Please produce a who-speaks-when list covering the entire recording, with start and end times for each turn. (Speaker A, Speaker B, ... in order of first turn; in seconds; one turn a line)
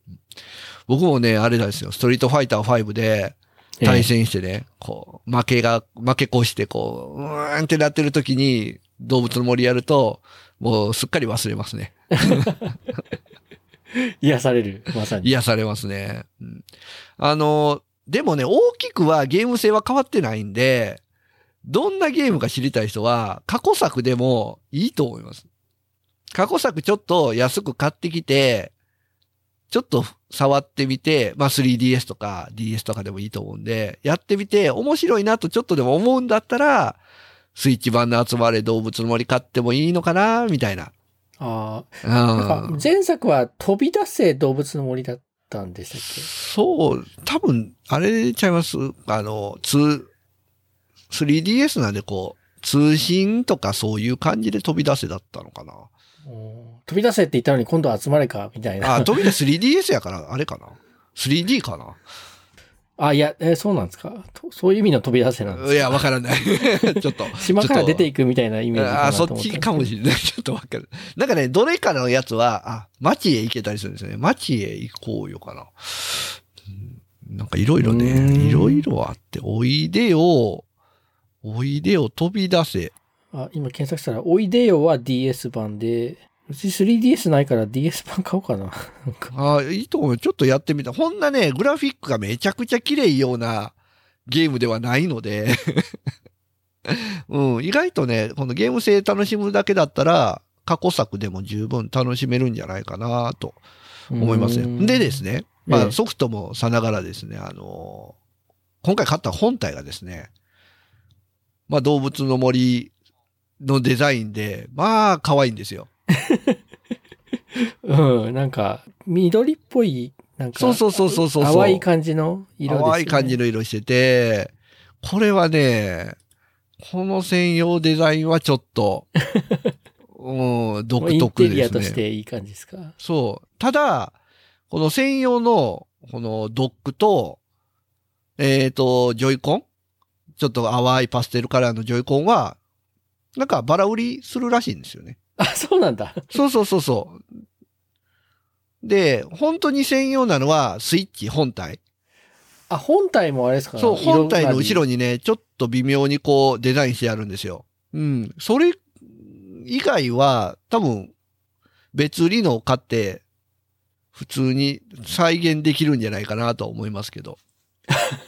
Speaker A: 0.9-12.5
Speaker B: 3.8-4.1
Speaker B: 12.2-12.7
Speaker B: 14.2-15.3
Speaker A: 15.2-16.6
Speaker A: 17.2-21.0
Speaker A: 21.6-25.5
Speaker A: 26.3-28.7
Speaker A: 29.7-37.0
Speaker A: 37.5-40.9
Speaker B: 41.4-46.3
Speaker A: 42.0-42.8
Speaker A: 46.1-50.1
Speaker A: 51.1-55.9
Speaker B: 56.2-59.3
Speaker A: 58.8-62.0
Speaker B: 63.0-66.0
Speaker A: 65.5-68.1
Speaker B: 66.6-69.9
Speaker A: 68.7-80.6
Speaker B: 77.8-78.9
Speaker A: 81.4-82.9
Speaker B: 83.3-89.3
Speaker A: 89.3-93.7
Speaker A: 94.3-95.9
Speaker A: 96.8-103.6
Speaker B: 104.1-106.0
Speaker A: 104.2-108.1
Speaker A: 108.8-110.3
Speaker A: 111.7-112.9
Speaker A: 113.6-115.9
Speaker B: 116.2-116.6
Speaker B: 117.5-123.4
Speaker A: 120.5-121.8
Speaker A: 122.7-126.2
Speaker A: 126.8-129.1
Speaker B: 129.3-129.7
Speaker A: 130.1-132.0
Speaker B: 131.0-132.9
Speaker A: 133.0-134.1
Speaker A: 134.7-137.4
Speaker A: 138.4-139.6
Speaker A: 140.4-142.6
Speaker A: 143.3-145.2
Speaker B: 145.4-146.3
Speaker A: 146.3-147.2
Speaker A: 148.8-151.8
Speaker B: 152.7-154.8
Speaker A: 153.8-161.1
Speaker A: 161.9-163.2
Speaker A: 164.1-167.4